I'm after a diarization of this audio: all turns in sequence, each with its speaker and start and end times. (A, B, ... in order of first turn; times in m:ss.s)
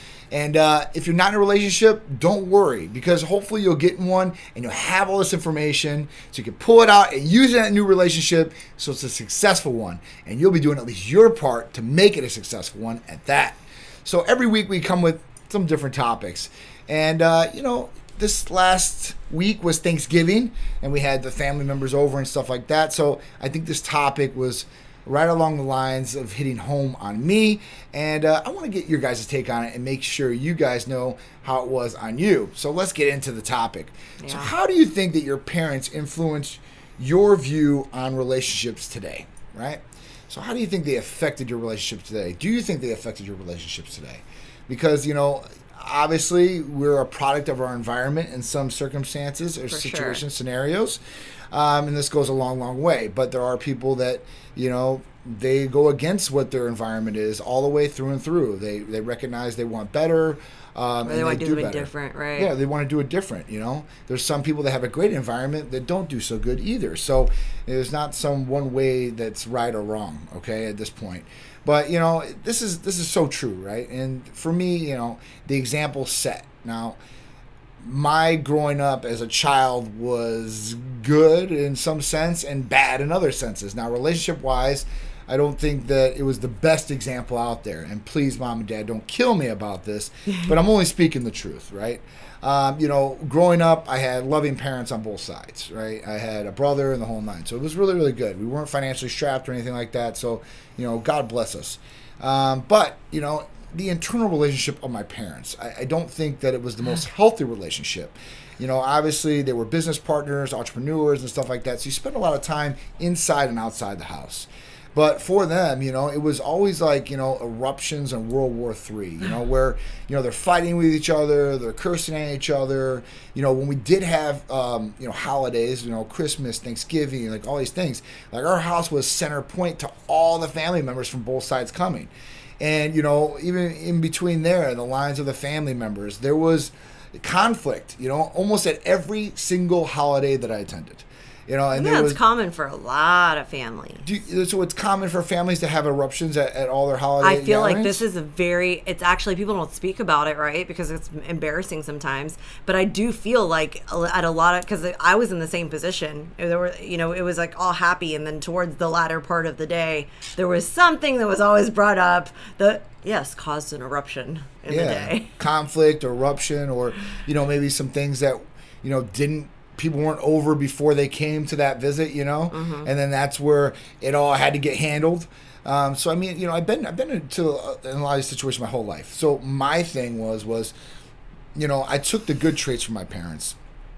0:00.3-0:51.0 A
0:34.2-0:34.5 B
0:49.7-0:50.2 B
0:51.5-1:17.0 A
1:01.0-1:02.5 B
1:17.8-2:22.2 A
2:21.7-2:24.0 B
2:24.0-2:28.0 A
2:27.2-2:45.3 B
2:44.7-3:00.7 A
2:52.5-2:52.9 B
3:01.6-3:03.6 A